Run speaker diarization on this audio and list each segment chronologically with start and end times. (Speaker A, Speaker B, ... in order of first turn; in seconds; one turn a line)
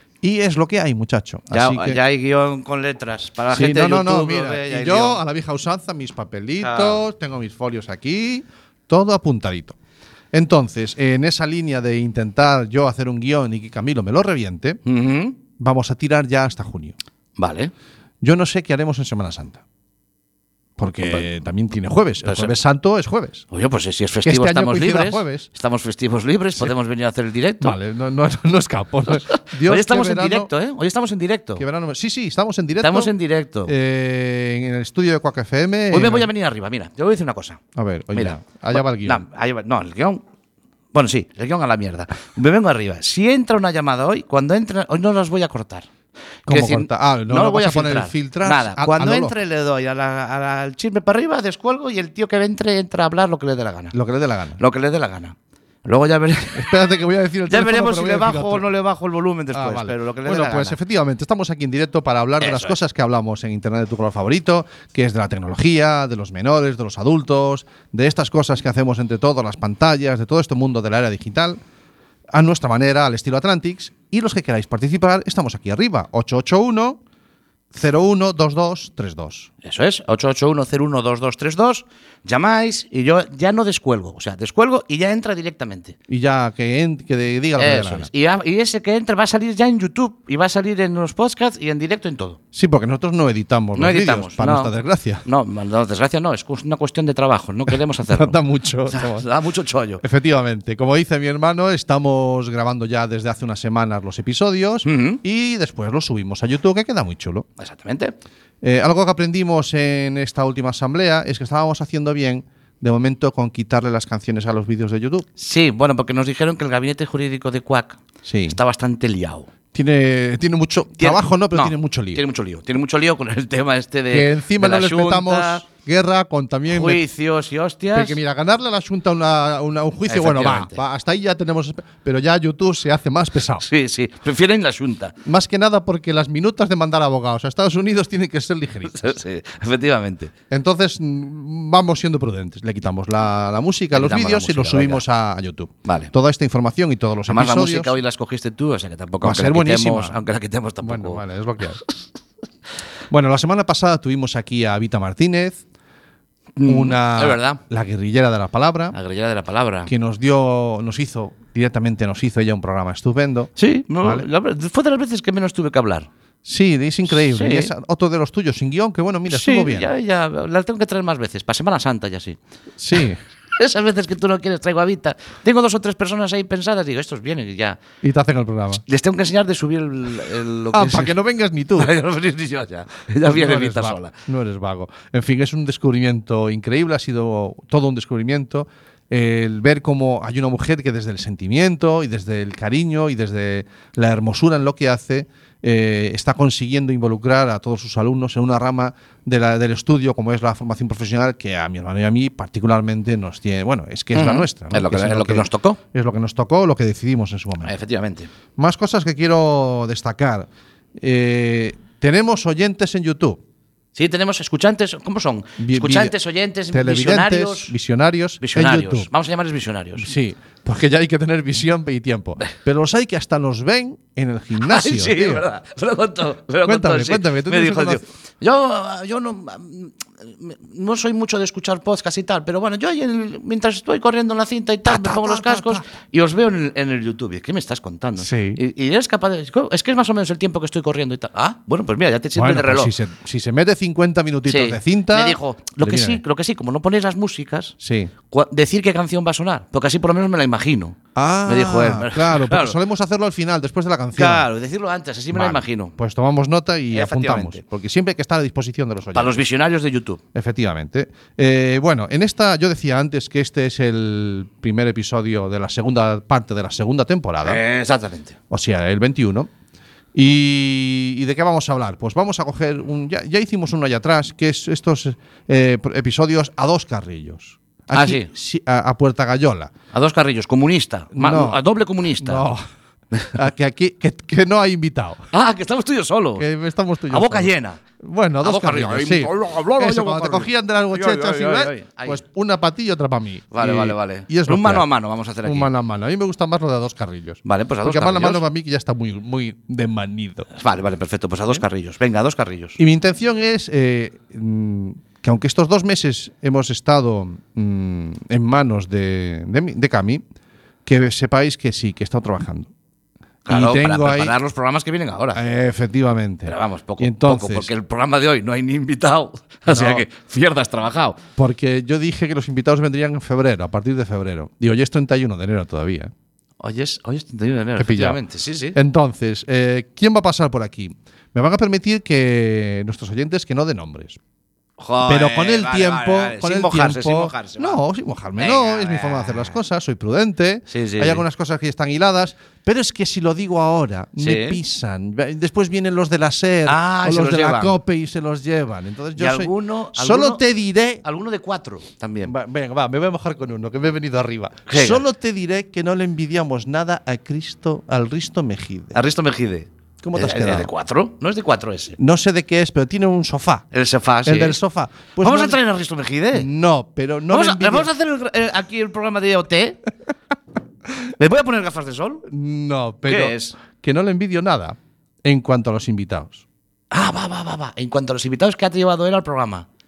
Speaker A: 0.2-2.0
Speaker B: 1.5-5.2
Speaker A: 3.5-9.8
Speaker B: 6.6-7.0
Speaker A: 10.3-14.8
Speaker B: 14.9-15.4
Speaker A: 15.6-17.0
Speaker B: 17.4-17.7
Speaker A: 18.2-19.6
Speaker A: 20.8-23.4
Speaker B: 22.2-22.5
Speaker B: 23.5-27.8
Speaker A: 24.2-25.5
Speaker A: 27.6-30.5
Speaker B: 29.1-31.6
Speaker A: 31.6-33.1
Speaker B: 32.8-33.7
Speaker A: 33.6-36.3
Speaker B: 35.9-37.6
Speaker A: 37.8-39.2
Speaker B: 38.1-40.2
Speaker B: 40.9-45.9
Speaker A: 46.5-49.4
Speaker B: 46.5-54.0
Speaker A: 53.9-54.6
Speaker B: 54.6-56.7
Speaker A: 56.5-58.7
Speaker B: 57.5-60.8
Speaker A: 59.5-71.6
Speaker B: 62.4-62.8
Speaker A: 72.3-77.0
Speaker A: 77.7-79.5
Speaker B: 79.6-86.0
Speaker A: 86.1-88.1
Speaker B: 87.6-92.4
Speaker A: 92.5-95.2
Speaker B: 93.8-94.7
Speaker B: 95.2-100.0
Speaker A: 98.0-99.3
Speaker A: 100.0-107.5
Speaker B: 104.8-105.2
Speaker B: 107.6-108.1
Speaker A: 108.6-115.3
Speaker B: 115.4-119.5
Speaker A: 118.3-118.6
Speaker A: 119.7-122.2
Speaker B: 121.0-125.6
Speaker A: 124.1-127.0
Speaker B: 126.7-128.2
Speaker A: 127.9-133.7
Speaker B: 130.1-130.8
Speaker B: 133.6-135.2
Speaker A: 135.2-139.2
Speaker B: 138.9-140.3
Speaker A: 140.5-147.9
Speaker B: 143.9-145.0
Speaker B: 145.8-146.1
Speaker B: 147.3-151.2
Speaker A: 149.2-150.2
Speaker A: 150.8-151.8
Speaker A: 153.1-155.6
Speaker B: 156.6-157.6
Speaker A: 156.7-158.9
Speaker B: 158.9-159.9
Speaker A: 159.9-164.3
Speaker B: 163.6-166.1
Speaker A: 166.4-169.9
Speaker B: 167.1-167.7
Speaker B: 169.3-172.4
Speaker A: 172.8-173.2
Speaker B: 173.6-177.8
Speaker A: 178.0-178.8
Speaker B: 178.9-181.2
Speaker A: 180.7-181.9
Speaker B: 181.8-184.1
Speaker A: 183.3-207.7
Speaker B: 204.1-205.8
Speaker B: 207.6-208.3
Speaker A: 208.6-213.4
Speaker B: 213.9-217.7
Speaker A: 215.6-216.2
Speaker A: 216.7-219.1
Speaker B: 218.4-220.1
Speaker A: 220.0-225.5
Speaker B: 224.6-242.9
Speaker A: 226.7-228.1
Speaker A: 234.9-235.8
Speaker A: 238.2-238.6
Speaker A: 242.3-246.2
Speaker B: 244.5-247.8
Speaker A: 247.8-248.1
Speaker B: 248.3-252.8
Speaker A: 251.2-254.5
Speaker B: 254.2-255.9
Speaker A: 255.3-259.4
Speaker B: 256.9-257.6
Speaker B: 259.1-260.2
Speaker A: 260.3-267.6
Speaker B: 267.4-268.4
Speaker A: 268.5-269.5
Speaker A: 270.1-279.7
Speaker B: 277.9-278.3
Speaker B: 279.9-282.5
Speaker A: 281.1-281.6
Speaker A: 282.2-282.6
Speaker A: 283.3-285.3
Speaker B: 285.3-286.5
Speaker A: 286.4-294.9
Speaker B: 287.1-287.8
Speaker B: 288.4-292.2
Speaker B: 293.5-295.7
Speaker A: 295.4-300.5
Speaker B: 297.4-298.4
Speaker B: 300.6-302.8
Speaker A: 302.8-310.2
Speaker A: 310.9-312.7
Speaker B: 313.5-315.4
Speaker A: 313.5-314.4
Speaker A: 315.4-317.7
Speaker B: 316.4-321.2
Speaker A: 319.7-320.1
Speaker A: 321.4-326.1
Speaker B: 326.6-328.8
Speaker A: 327.8-328.2
Speaker A: 328.7-334.2
Speaker B: 334.8-337.8
Speaker A: 335.1-351.0
Speaker B: 338.4-339.6
Speaker B: 340.7-341.2
Speaker B: 344.2-344.6
Speaker B: 346.7-347.8
Speaker B: 349.2-350.4
Speaker B: 351.0-352.3
Speaker A: 352.2-359.0
Speaker B: 354.7-355.0
Speaker B: 358.9-362.0
Speaker A: 360.0-360.7
Speaker A: 362.0-363.7
Speaker B: 363.7-364.6
Speaker A: 364.2-365.6
Speaker B: 365.2-366.5
Speaker A: 366.3-367.9
Speaker B: 367.3-369.8
Speaker B: 371.2-372.2
Speaker A: 372.3-376.4
Speaker B: 373.1-373.6
Speaker B: 376.9-379.7